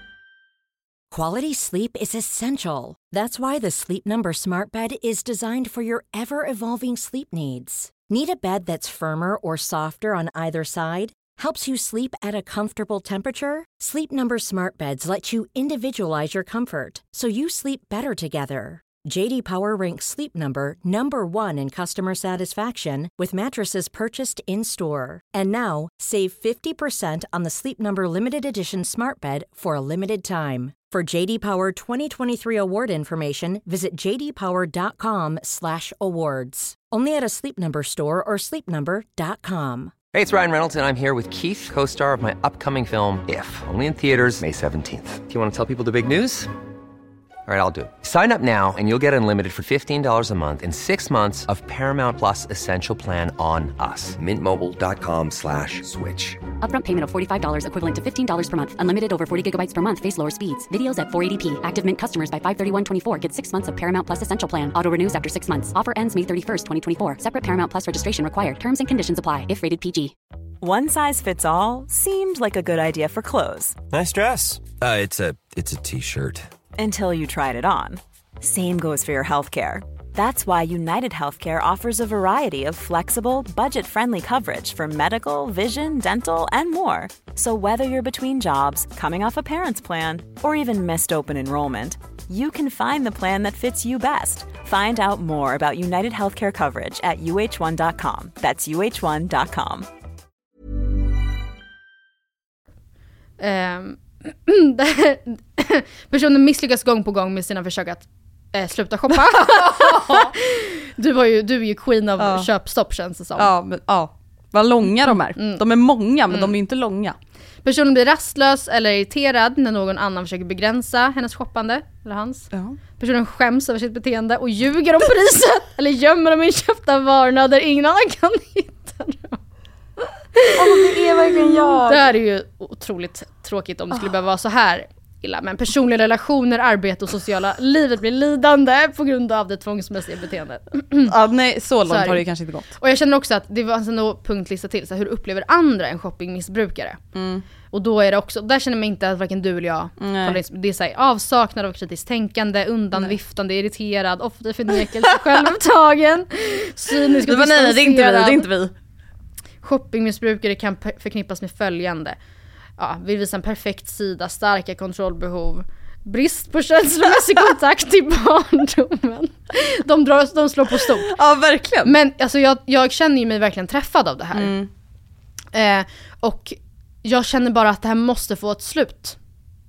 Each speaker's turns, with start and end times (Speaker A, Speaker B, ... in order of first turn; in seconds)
Speaker A: 1.1-39.9
Speaker B: 40.1-46.5, 47.5-56.4
Speaker C: 56.6-70.1
Speaker D: 70.6-73.8, 76.8-99.9
Speaker E: 73.9-76.5
Speaker F: 103.4-113.5, 115.0-115.6, 116.3-116.5, 117.6-129.4, 130.3-141.1, 141.9-142.2, 142.8-147.0, 147.7-158.5, 159.6-162.2, 162.8-171.1, 171.8-174.6, 175.5-179.2
Speaker G: 109.3-110.3, 112.2-112.5, 113.3-117.2, 122.5-122.8, 130.5-132.1, 141.1-142.7, 147.1-147.4, 150.0-150.4, 155.0-155.4, 156.9-158.7, 170.7-171.9, 174.3-174.7